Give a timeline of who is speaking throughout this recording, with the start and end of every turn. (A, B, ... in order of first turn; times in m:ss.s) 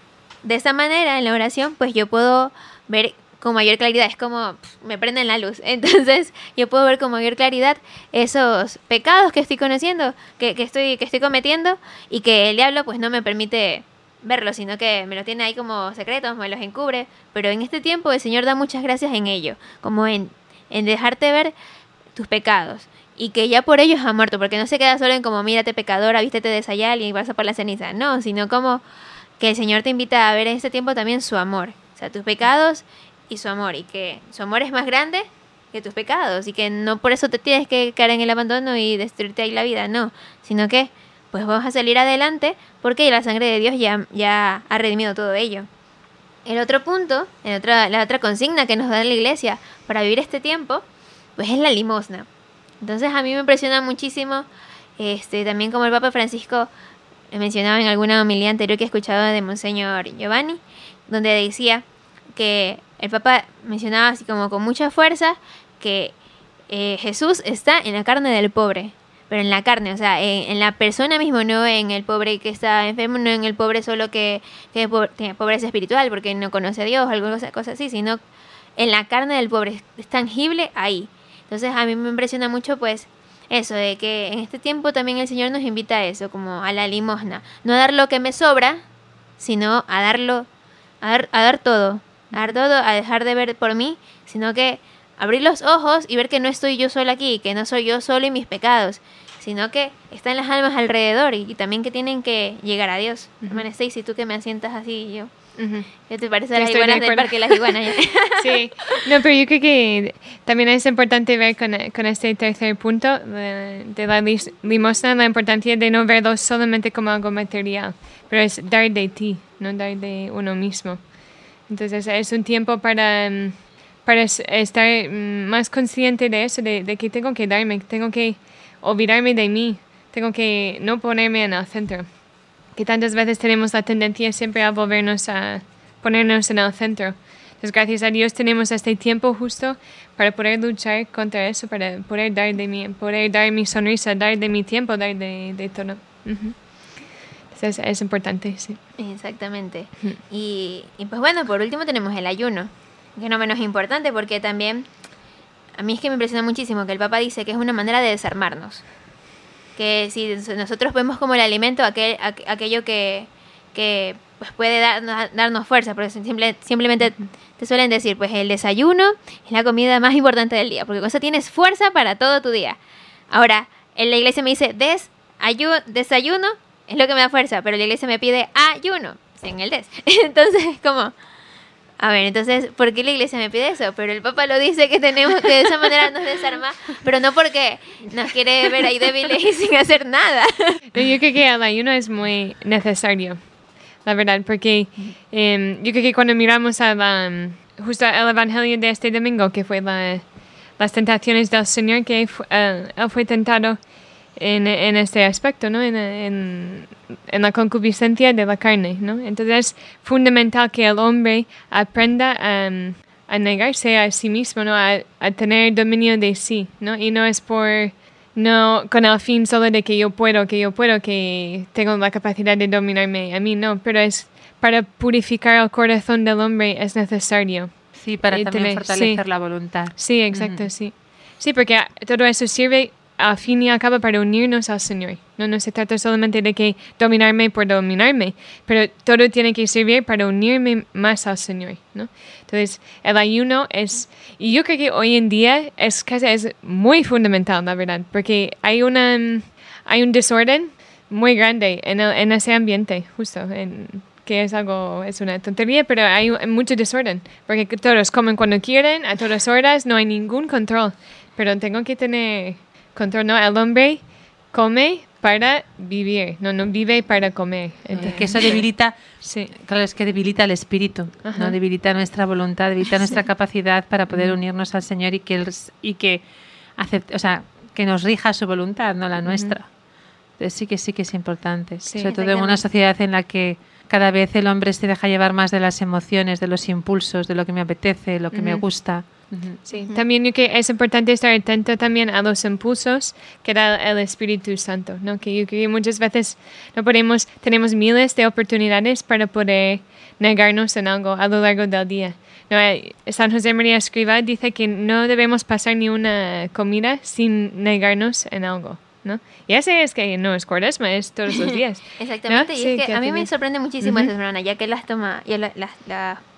0:00.4-0:21.5 A
0:22.1-0:28.8 A
0:29.4-0:45.7 A
0:46.4-0:50.8 A
0:51.4-0:52.3 A
0:52.8-0:54.5 A
0:55.0-0:56.7 A
0:57.3-1:01.8 A
1:02.3-1:06.1 A
1:06.7-1:18.2 A
1:18.8-1:28.8 A
1:29.4-1:30.5 A
1:31.0-1:45.3 A
1:45.6-1:45.9 B
1:45.9-1:48.6 A
1:46.5-1:47.8 B
1:48.4-2:28.8 B
2:29.0-2:34.8 A
2:35.8-2:38.9 A
2:39.8-2:52.8 A
2:53.3-3:01.1 A
3:02.0-3:10.8 A
3:10.9-4:28.6 B
3:47.9-3:50.7 C
4:27.9-4:36.2 C
4:29.2-4:29.5 B
4:31.2-4:31.6 B
4:34.1-4:34.4 B
4:36.8-4:39.7 C
4:39.2-4:39.6 B
4:40.4-4:49.6 C
4:41.8-4:42.6 B
4:48.3-5:13.3 B
4:49.7-4:50.0 A
5:12.0-5:16.2 A
5:13.8-5:14.1 B